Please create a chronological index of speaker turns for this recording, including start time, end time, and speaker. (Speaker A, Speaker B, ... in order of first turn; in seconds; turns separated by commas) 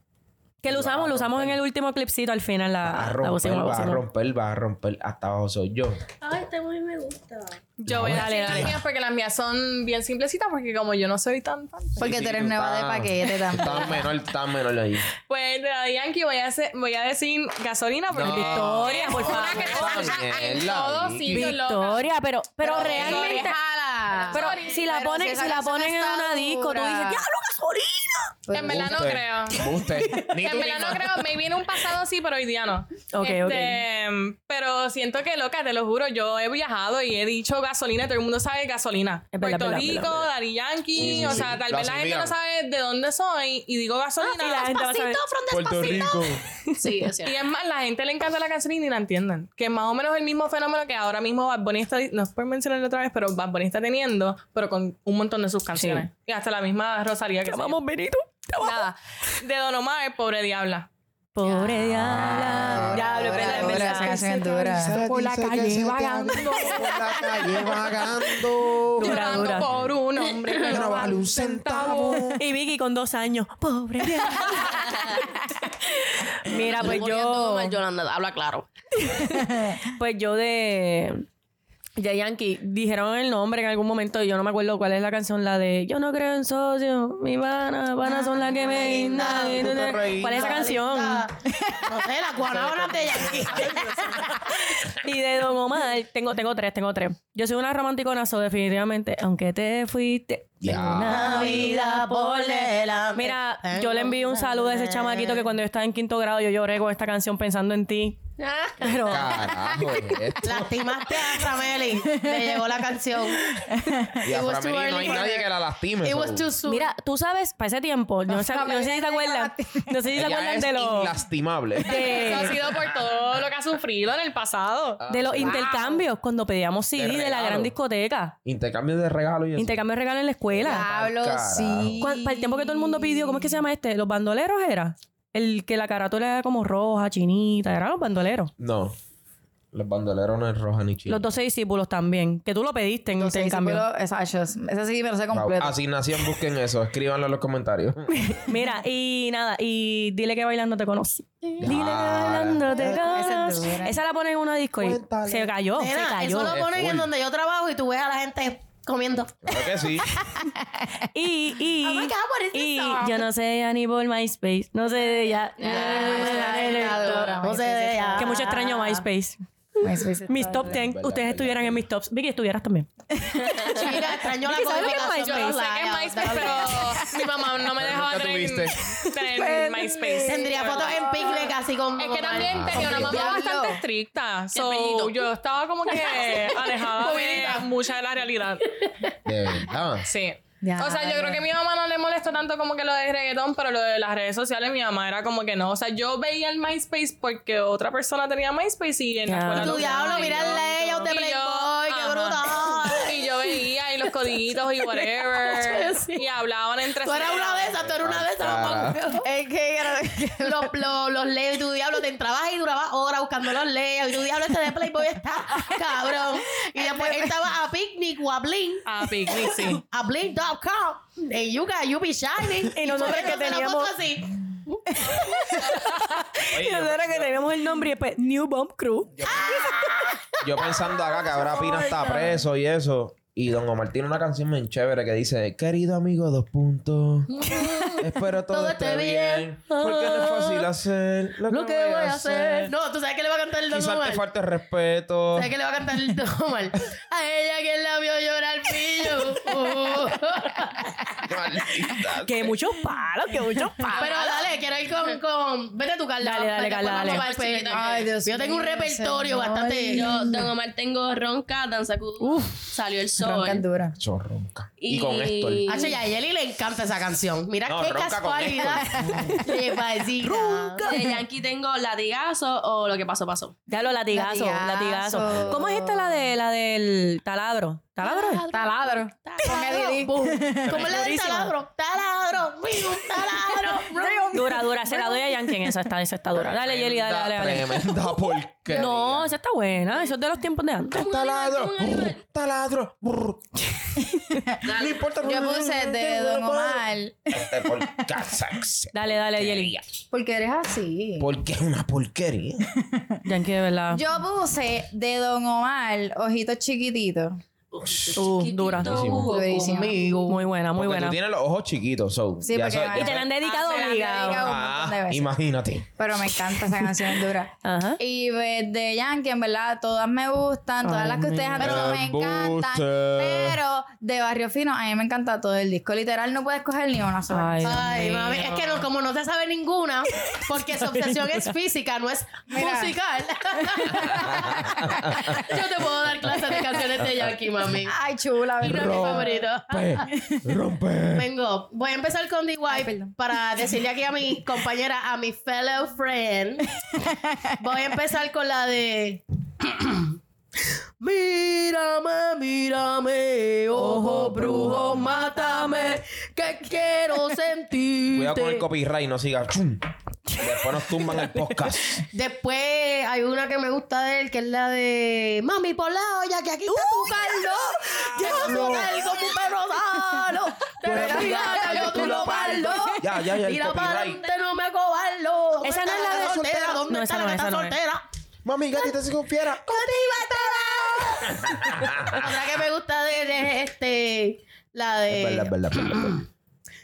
Speaker A: 0.6-4.0, Speaker B: 0.6-1.6, Speaker B: 2.8-6.0, Speaker C: 6.2-7.6, Speaker D: 7.8-12.0, Speaker B: 7.9-8.8, Speaker A: 8.1-8.6, Speaker E: 12.0-14.1, Speaker B: 12.0-15.1, Speaker D: 15.3-22.1, Speaker B: 18.1-21.5, Speaker A: 18.2-20.1, Speaker A: 21.3-23.6, Speaker F: 22.6-24.3, Speaker D: 22.7-23.5, Speaker E: 22.7-27.2, Speaker D: 24.2-24.8, Speaker A: 24.3-28.3, Speaker E: 28.5-29.1, Speaker D: 28.5-29.7, Speaker B: 28.6-31.2, Speaker D: 30.3-44.8, Speaker A: 33.1-33.8, Speaker A: 39.3-40.3, Speaker B: 40.9-42.4, Speaker A: 44.2-45.2, Speaker C: 44.6-47.4, Speaker B: 45.5-46.4, Speaker D: 47.2-57.8, Speaker A: 55.7-56.0, Speaker A: 57.4-58.9, Speaker D: 58.6-60.9, Speaker A: 61.3-64.3, Speaker B: 61.8-63.3, Speaker E: 62.8-66.5, Speaker D: 64.0-64.5, Speaker B: 64.7-70.0, Speaker D: 65.1-66.9, Speaker D: 69.0-72.3, Speaker A: 69.0-69.7, Speaker C: 70.4-70.8, Speaker B: 70.6-72.4, Speaker A: 72.3-75.2, Speaker A: 76.1-77.7, Speaker C: 76.4-78.7, Speaker A: 79.0-81.2, Speaker A: 82.0-91.2, Speaker F: 88.6-94.3, Speaker B: 89.3-90.6, Speaker B: 92.5-93.8, Speaker A: 94.7-108.2, Speaker B: 100.6-101.7, Speaker F: 101.0-105.4, Speaker C: 108.4-109.2, Speaker A: 108.8-109.4, Speaker B: 108.8-110.8, Speaker F: 110.4-113.5, Speaker E: 112.0-112.6, Speaker E: 113.6-114.2, Speaker B: 114.2-116.5, Speaker F: 114.2-115.5, Speaker F: 116.0-116.9, Speaker A: 116.7-121.2, Speaker E: 118.3-120.0, Speaker B: 120.1-123.0, Speaker A: 121.8-122.5, Speaker D: 121.9-125.0, Speaker B: 125.0-125.8, Speaker A: 125.1-128.3, Speaker E: 125.4-126.0, Speaker B: 126.9-127.7, Speaker B: 128.4-129.8, Speaker A: 129.6-130.8, Speaker B: 130.5-132.0, Speaker E: 130.6-133.6, Speaker A: 132.0-138.5, Speaker B: 138.6-138.9, Speaker B: 139.7-141.2, Speaker A: 141.1-143.8, Speaker E: 143.2-145.8, Speaker B: 145.3-148.3, Speaker A: 148.1-156.6, Speaker B: 151.6-153.2, Speaker E: 152.8-154.0, Speaker B: 154.8-155.5, Speaker F: 155.7-159.5, Speaker B: 156.4-157.1, Speaker B: 159.4-160.2, Speaker E: 160.2-160.5, Speaker A: 161.1-167.2, Speaker F: 161.8-163.2, Speaker C: 165.6-167.4, Speaker F: 165.6-169.0, Speaker E: 165.6-168.4, Speaker A: 168.2-173.8, Speaker E: 169.8-170.8, Speaker B: 170.5-171.8, Speaker E: 173.3-173.7, Speaker F: 173.7-176.9, Speaker A: 174.4-175.6, Speaker D: 175.0-181.0, Speaker E: 176.9-177.3, Speaker B: 177.8-178.9, Speaker A: 179.3-180.1, Speaker E: 179.5-181.5, Speaker F: 180.2-183.4, Speaker D: 181.9-189.1, Speaker B: 182.4-183.3, Speaker E: 182.7-183.8, Speaker C: 184.5-185.3, Speaker C: 185.9-187.1, Speaker F: 187.0-187.6, Speaker B: 189.2-190.1, Speaker D: 190.0-207.8, Speaker E: 190.6-191.5, Speaker A: 199.3-200.6, Speaker F: 199.5-203.4, Speaker F: 205.4-206.2, Speaker F: 207.0-209.2, Speaker B: 207.7-209.2, Speaker E: 209.2-210.7, Speaker F: 210.4-219.0, Speaker E: 216.8-217.4, Speaker D: 218.8-219.8, Speaker F: 219.8-224.8, Speaker A: 222.7-223.9, Speaker A: 225.4-229.3, Speaker B: 226.5-227.4, Speaker B: 229.2-242.6, Speaker F: 231.1-232.1, Speaker F: 237.4-240.5, Speaker F: 241.5-244.2, Speaker B: 243.7-245.5, Speaker F: 245.3-250.9, Speaker B: 251.2-252.6, Speaker A: 252.2-254.3, Speaker F: 253.9-260.1, Speaker C: 254.0-254.4, Speaker A: 256.2-257.2, Speaker C: 256.9-258.1, Speaker E: 257.7-260.5, Speaker C: 259.9-263.6, Speaker A: 262.2-262.6, Speaker E: 263.2-264.0, Speaker B: 264.0-265.7, Speaker C: 264.8-266.0, Speaker F: 265.7-270.9, Speaker B: 267.6-269.4, Speaker E: 268.9-269.6, Speaker C: 270.8-273.6, Speaker E: 270.8-271.1, Speaker A: 273.7-278.4, Speaker E: 274.1-276.3, Speaker B: 275.2-275.6, Speaker C: 278.1-279.7, Speaker E: 278.5-280.9, Speaker F: 279.4-284.4, Speaker B: 280.6-281.2, Speaker A: 280.7-281.5, Speaker E: 283.7-285.7, Speaker A: 284.3-287.9, Speaker B: 286.3-289.3, Speaker A: 288.7-291.0, Speaker C: 290.9-292.2, Speaker B: 291.0-293.5, Speaker E: 294.2-294.6, Speaker C: 294.6-295.0, Speaker B: 294.7-299.8, Speaker E: 295.1-298.2, Speaker A: 298.9-299.7, Speaker E: 300.1-301.3, Speaker B: 301.2-302.7, Speaker A: 303.2-304.0, Speaker E: 303.9-307.4, Speaker C: 307.7-309.9, Speaker B: 307.8-308.2, Speaker A: 308.1-309.2, Speaker B: 308.7-309.3, Speaker E: 309.2-310.0, Speaker F: 309.3-310.4, Speaker A: 310.3-311.2, Speaker B: 310.7-313.3, Speaker E: 312.4-315.3, Speaker A: 312.9-314.4, Speaker D: 313.4-314.3, Speaker B: 314.4-316.5, Speaker E: 316.0-328.0, Speaker A: 317.6-318.0, Speaker A: 320.8-321.6, Speaker B: 321.6-323.6, Speaker F: 321.6-321.9, Speaker A: 327.3-328.5, Speaker F: 327.6-334.6, Speaker A: 330.3-331.5, Speaker E: 332.5-333.0, Speaker E: 333.6-335.4, Speaker B: 334.1-335.4, Speaker F: 335.4-337.9, Speaker B: 337.0-337.3, Speaker E: 337.8-339.5, Speaker F: 338.6-340.1, Speaker B: 338.6-341.3, Speaker E: 340.1-340.4, Speaker F: 341.1-346.7, Speaker E: 342.7-343.1, Speaker F: 347.6-350.1, Speaker F: 351.0-358.6, Speaker A: 353.8-355.5, Speaker B: 358.1-362.0, Speaker F: 362.1-378.0, Speaker A: 366.7-367.6, Speaker A: 368.1-368.7, Speaker B: 368.2-368.9, Speaker B: 370.8-374.2, Speaker E: 370.9-372.9, Speaker A: 375.6-377.8, Speaker B: 376.0-376.6, Speaker B: 378.4-379.7, Speaker F: 379.6-386.2, Speaker B: 381.3-382.3, Speaker B: 385.1-386.2